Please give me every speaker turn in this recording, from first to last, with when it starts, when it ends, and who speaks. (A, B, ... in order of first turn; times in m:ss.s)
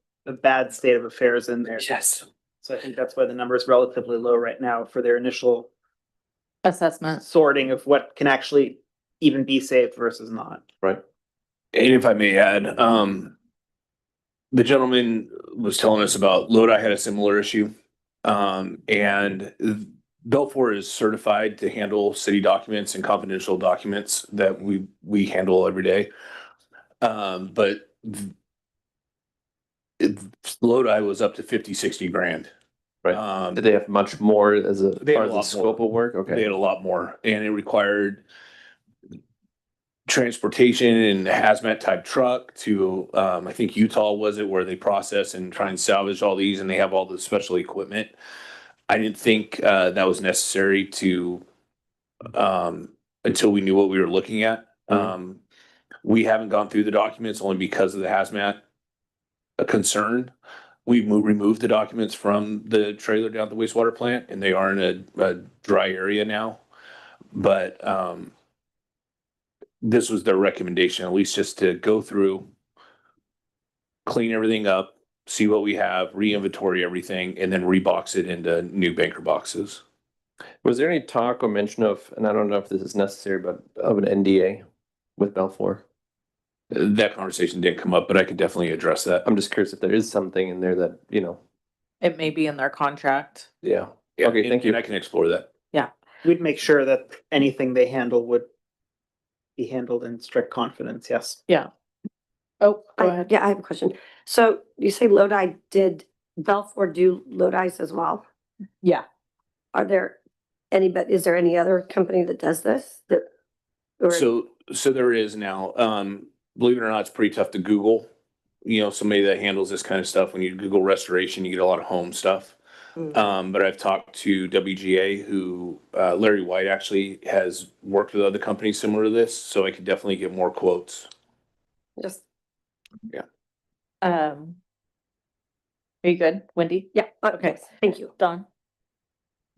0:00.3-0:05.7 A
0:06.6-0:07.2 B
0:07.2-0:10.6 A
0:11.7-0:13.3 C
0:14.5-0:17.7 C
0:18.2-0:26.1 C
0:27.0-0:28.3 C
0:30.0-0:32.5 C
0:33.0-0:36.5 D
0:33.1-0:33.6 C
0:35.0-0:38.2 C
0:40.1-0:48.1 C
0:48.9-0:51.4 C
0:52.3-0:55.4 C
0:56.0-0:58.6 C
0:59.6-1:00.3 C
1:00.9-1:06.6 C
1:07.3-1:08.3 C
1:09.8-1:12.5 C
1:14.1-1:19.8 C
1:20.6-1:24.6 D
1:25.2-1:25.8 D
1:26.7-1:29.2 C
1:29.2-1:31.4 D
1:32.0-1:33.5 B
1:33.6-1:34.8 D
1:34.2-1:35.5 C
1:36.2-1:38.5 A
1:39.6-1:41.4 A
1:42.6-1:43.3 B
1:43.0-1:48.2 E
1:49.7-1:50.2 E
1:50.7-1:53.3 E
1:54.1-1:58.1 C
1:58.6-2:02.6 C
2:03.1-2:11.1 C
2:12.0-2:12.2 E
2:14.0-2:14.6 B
2:16.0-2:17.6 B
2:16.9-2:18.1 E
2:18.2-2:18.5 B